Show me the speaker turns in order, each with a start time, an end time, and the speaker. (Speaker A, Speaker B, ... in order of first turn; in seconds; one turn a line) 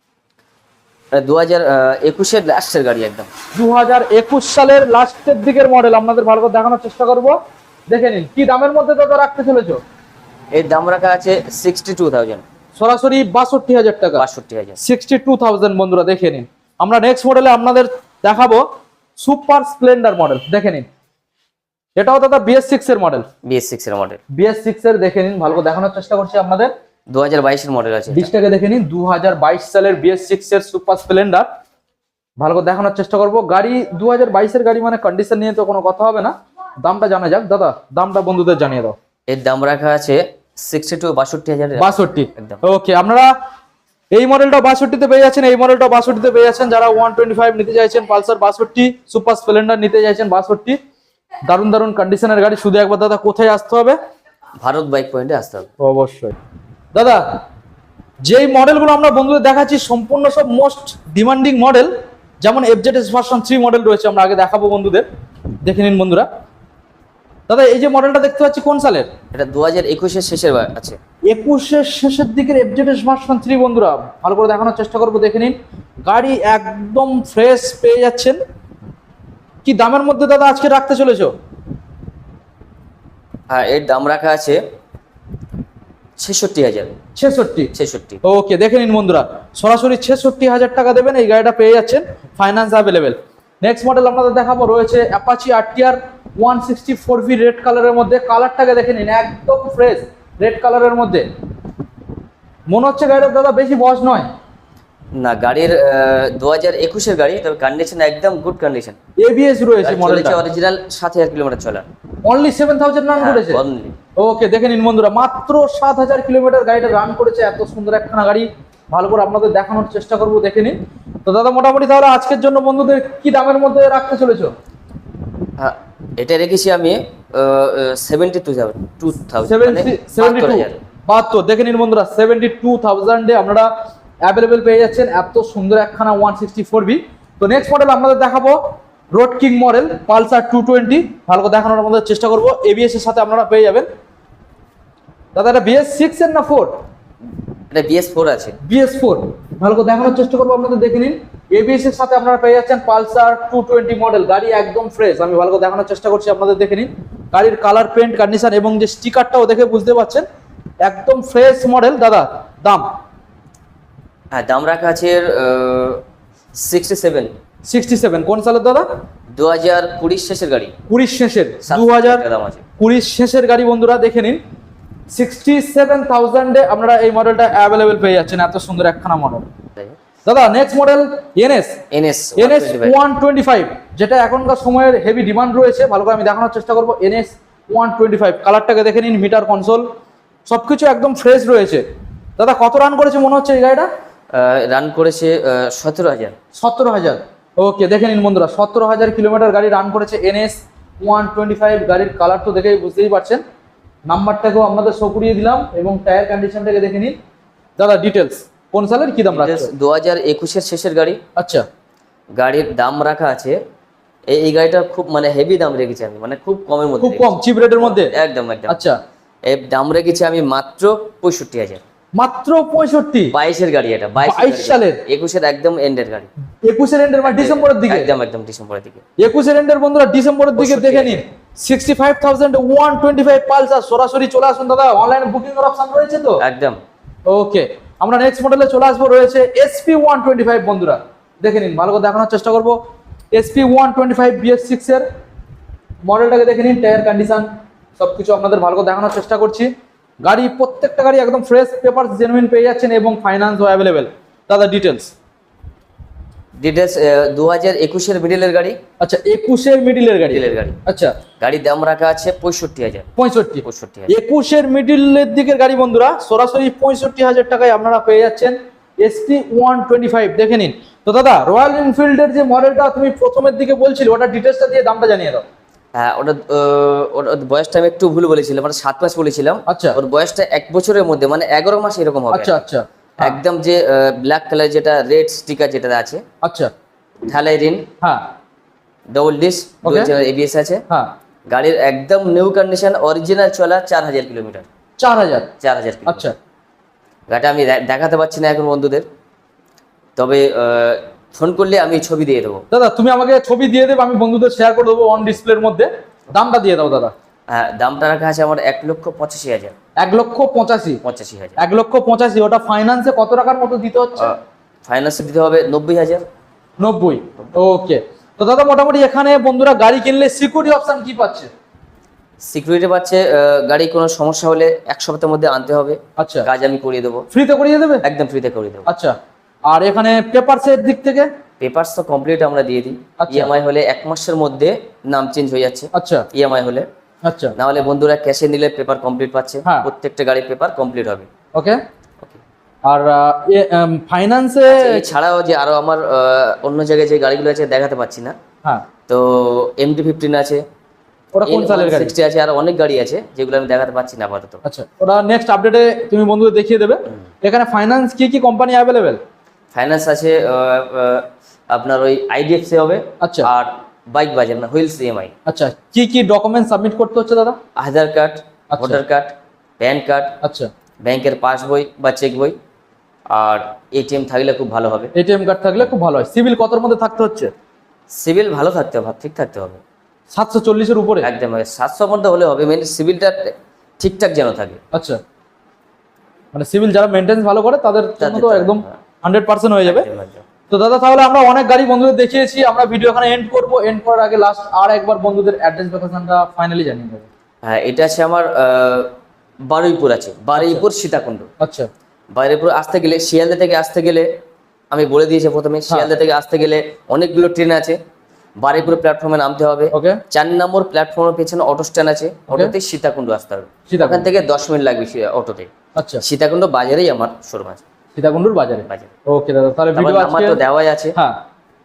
Speaker A: 1.1-3.3
Speaker B: 3.5-7.4
Speaker B: 7.9-9.8
Speaker A: 10.5-12.4
Speaker B: 12.8-14.2
Speaker A: 14.2-14.8
Speaker B: 14.8-18.6
Speaker B: 19.2-20.9
Speaker B: 22.0-23.3
Speaker A: 23.4-24.2
Speaker B: 24.3-26.7
Speaker A: 27.1-28.3
Speaker B: 28.1-31.5
Speaker B: 32.4-39.0
Speaker A: 39.3-42.6
Speaker B: 41.8-43.3
Speaker B: 44.1-50.8
Speaker B: 51.5-54.0
Speaker A: 54.6-55.7
Speaker B: 55.8-56.4
Speaker B: 57.0-57.2
Speaker B: 58.2-65.1
Speaker B: 65.6-66.3
Speaker B: 67.5-69.1
Speaker A: 69.3-71.0
Speaker B: 71.3-78.4
Speaker B: 79.7-81.3
Speaker A: 83.5-84.6
Speaker A: 86.2-87.0
Speaker B: 87.2-87.7
Speaker A: 87.7-88.2
Speaker B: 88.2-101.3
Speaker B: 102.7-104.3
Speaker A: 105.1-109.0
Speaker B: 109.2-110.4
Speaker A: 109.8-111.9
Speaker B: 112.2-113.6
Speaker A: 113.2-114.0
Speaker B: 114.2-124.5
Speaker A: 125.6-130.8
Speaker B: 129.5-133.7
Speaker B: 134.2-138.6
Speaker B: 139.1-143.9
Speaker B: 145.3-146.7
Speaker A: 147.7-148.6
Speaker B: 148.6-160.3
Speaker B: 160.8-162.9
Speaker A: 164.3-166.0
Speaker A: 166.5-167.3
Speaker B: 167.7-168.9
Speaker A: 169.3-170.7
Speaker B: 170.9-172.2
Speaker A: 171.6-172.6
Speaker B: 172.8-174.4
Speaker B: 175.1-179.4
Speaker B: 180.2-181.8
Speaker A: 181.9-183.0
Speaker B: 182.4-189.9
Speaker B: 190.5-191.8
Speaker B: 192.4-193.9
Speaker A: 194.3-196.4
Speaker B: 196.6-203.4
Speaker B: 204.1-207.2
Speaker B: 207.8-209.7
Speaker A: 209.3-211.2
Speaker B: 211.4-211.7
Speaker A: 212.3-213.6
Speaker A: 214.3-218.9
Speaker B: 217.0-218.1
Speaker B: 218.7-219.0
Speaker A: 219.4-221.8
Speaker B: 222.2-223.3
Speaker A: 223.3-226.3
Speaker B: 224.2-225.0
Speaker B: 226.6-228.1
Speaker A: 227.2-229.0
Speaker B: 229.2-236.4
Speaker A: 230.6-231.2
Speaker A: 236.4-236.8
Speaker B: 237.3-242.8
Speaker B: 243.3-245.1
Speaker B: 246.1-249.7
Speaker B: 250.2-255.1
Speaker A: 256.6-258.8
Speaker B: 259.0-261.2
Speaker A: 260.3-260.8
Speaker A: 261.4-263.1
Speaker B: 263.2-275.4
Speaker A: 263.6-264.1
Speaker A: 275.9-282.6
Speaker B: 279.7-280.0
Speaker B: 282.3-283.4
Speaker A: 283.2-286.2
Speaker B: 286.4-286.7
Speaker A: 287.3-287.9
Speaker A: 289.1-290.8
Speaker B: 289.8-290.1
Speaker A: 291.5-294.7
Speaker B: 295.0-295.5
Speaker A: 295.6-296.3
Speaker B: 296.1-296.4
Speaker A: 297.3-299.1
Speaker A: 300.2-302.6
Speaker B: 302.7-307.1
Speaker A: 307.5-309.8
Speaker B: 310.0-311.0
Speaker A: 311.0-311.6
Speaker B: 311.6-314.3
Speaker A: 314.2-316.2
Speaker B: 316.8-321.5
Speaker A: 322.4-327.3
Speaker B: 326.2-326.5
Speaker B: 327.3-328.0
Speaker A: 328.0-328.9
Speaker B: 328.9-329.2
Speaker B: 329.7-331.3
Speaker A: 331.6-336.9
Speaker B: 333.2-333.5
Speaker B: 335.9-336.3
Speaker B: 337.2-337.6
Speaker A: 337.6-341.3
Speaker B: 341.5-341.8
Speaker B: 342.9-345.1
Speaker A: 344.7-348.4
Speaker A: 349.1-350.7
Speaker B: 351.4-352.1
Speaker A: 351.4-354.6
Speaker B: 354.6-359.2
Speaker A: 359.7-365.3
Speaker B: 363.2-363.5
Speaker B: 365.5-367.6
Speaker A: 367.8-370.4
Speaker B: 368.7-369.0
Speaker B: 370.4-370.7
Speaker A: 371.0-372.6
Speaker A: 373.3-375.1
Speaker B: 375.1-377.5
Speaker A: 378.1-379.8
Speaker B: 380.3-381.3
Speaker A: 381.2-384.8
Speaker B: 384.9-385.2
Speaker B: 386.5-390.1
Speaker A: 388.2-389.0
Speaker A: 389.9-390.4
Speaker B: 390.7-397.3
Speaker A: 397.6-399.1
Speaker A: 399.7-401.5
Speaker B: 400.6-400.8
Speaker B: 401.6-401.9
Speaker A: 402.3-404.3
Speaker A: 404.9-408.0
Speaker A: 408.6-417.8
Speaker B: 409.9-410.2
Speaker B: 413.9-414.3
Speaker B: 415.9-416.2
Speaker B: 418.2-420.6
Speaker A: 419.9-421.2
Speaker B: 421.1-421.4